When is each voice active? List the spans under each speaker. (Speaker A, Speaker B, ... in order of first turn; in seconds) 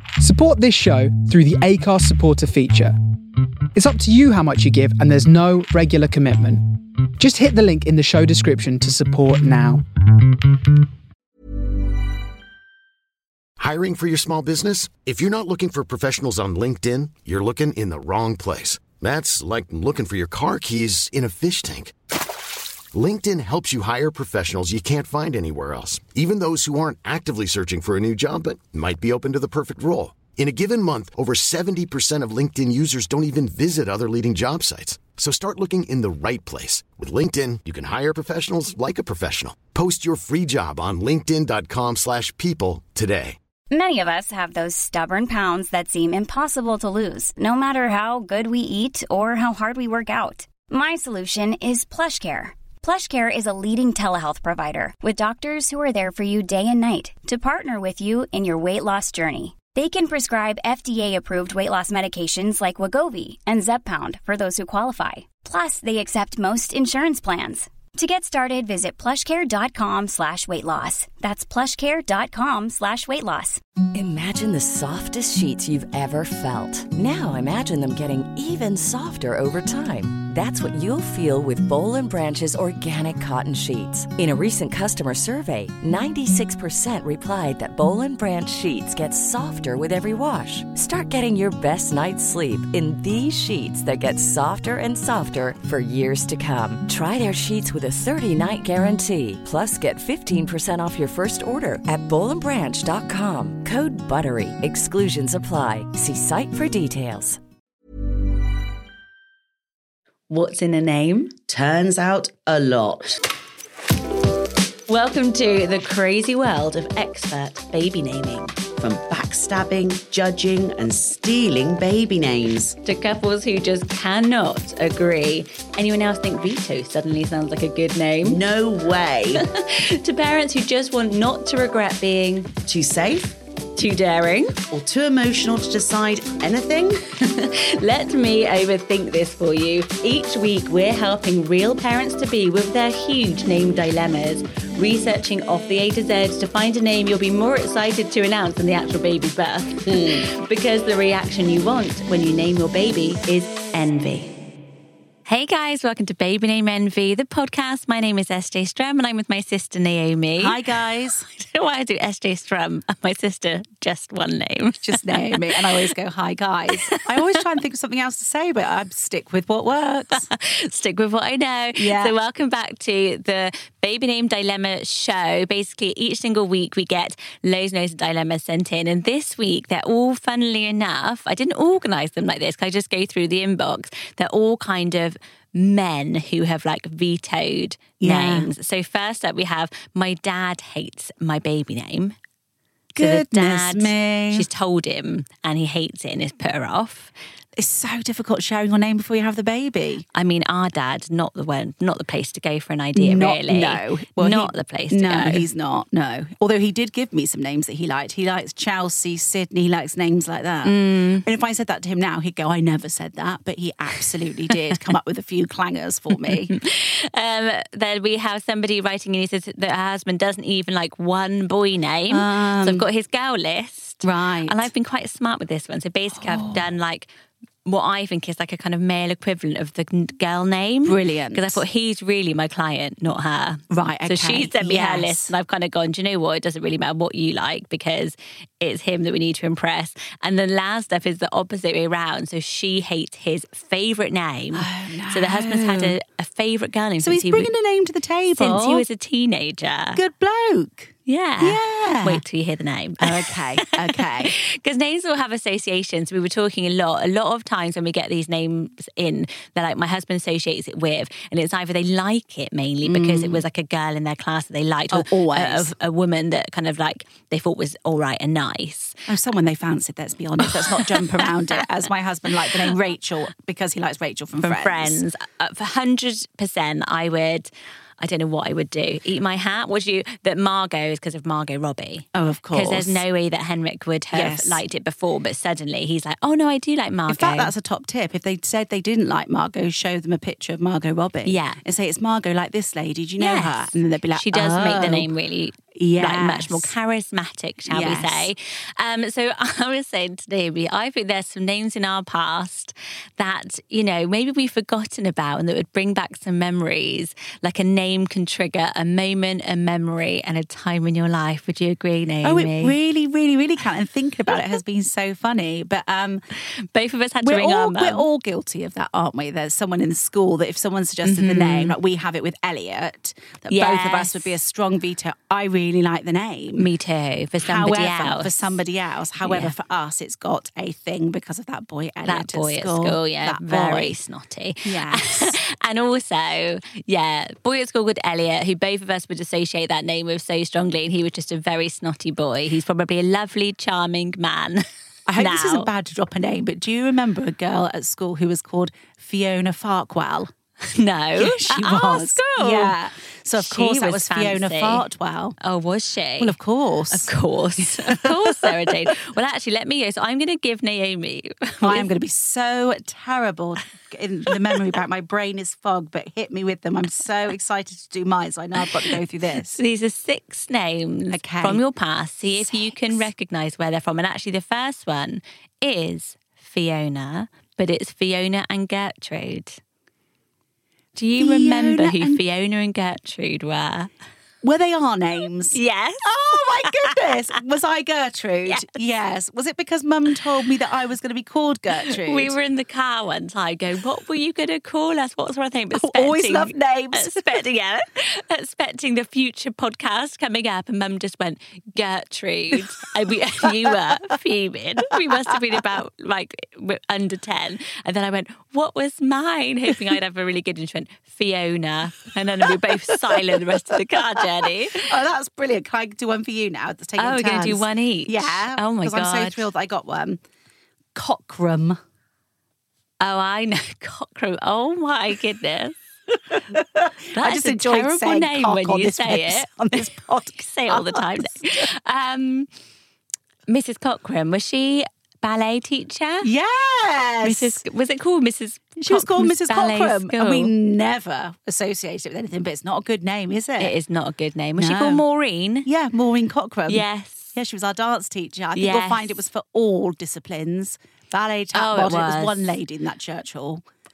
Speaker A: 0.2-2.9, 3.7-9.8
Speaker B: 13.6-21.9, 22.9-43.4
Speaker C: 43.7-73.6
Speaker D: 73.9-107.4
Speaker E: 110.3-111.4, 114.9-118.6, 122.8-128.4, 129.3-132.5, 133.8-134.6, 137.2-154.3, 155.2-165.9, 166.8-167.2, 170.2-192.2, 193.0-197.1, 200.1-205.4, 210.6-211.2, 216.5-227.1, 227.6-247.5, 248.4-250.0, 251.1-268.9, 270.4-271.6, 274.4-287.5, 291.2-291.6, 293.2-312.7, 316.5-318.1, 321.0-321.8, 323.5-324.3, 326.6-328.5, 329.2-329.5, 332.1-344.6, 345.1-345.7, 350.6-352.7, 353.3-354.8, 355.4-356.3, 356.9-361.9, 369.5-379.6, 380.9-383.9, 385.5-387.1, 388.4-388.7, 391.7-414.9, 417.0-419.4, 423.0-425.8, 427.1-432.5, 433.5-436.3, 437.2-440.5, 443.6-445.7, 446.7-447.4, 448.5-449.1, 451.5-452.6
Speaker F: 111.4-113.1, 118.7-122.8, 128.2-129.4, 132.6-133.4, 134.7-137.0, 149.9-150.2
Speaker G: 160.4-161.3, 164.8-170.2, 171.8-172.1, 188.0-188.5, 192.9-194.5, 197.6-200.0, 202.9-216.5, 222.1-222.8, 224.0-224.7, 226.2-226.7, 230.8-231.6, 233.7-235.3, 244.5-245.9, 247.0-248.8, 249.9-252.2, 253.0-254.3, 262.8-263.4, 264.9-265.7, 269.1-275.0, 282.1-283.0, 284.1-284.6, 287.1-295.1, 295.7-296.7, 297.7-298.3, 312.2-316.2, 317.2-326.7, 327.4-333.9, 334.6-335.4, 345.1-350.3, 351.1-355.4, 356.2-358.9, 361.6-369.6, 371.1-371.6, 372.4-373.0, 381.2-382.2, 384.4-392.3, 395.7-397.4, 414.2-420.2, 420.9-421.8, 426.3-431.7, 436.2-437.6, 438.8-443.7, 444.6-445.0, 445.6-453.6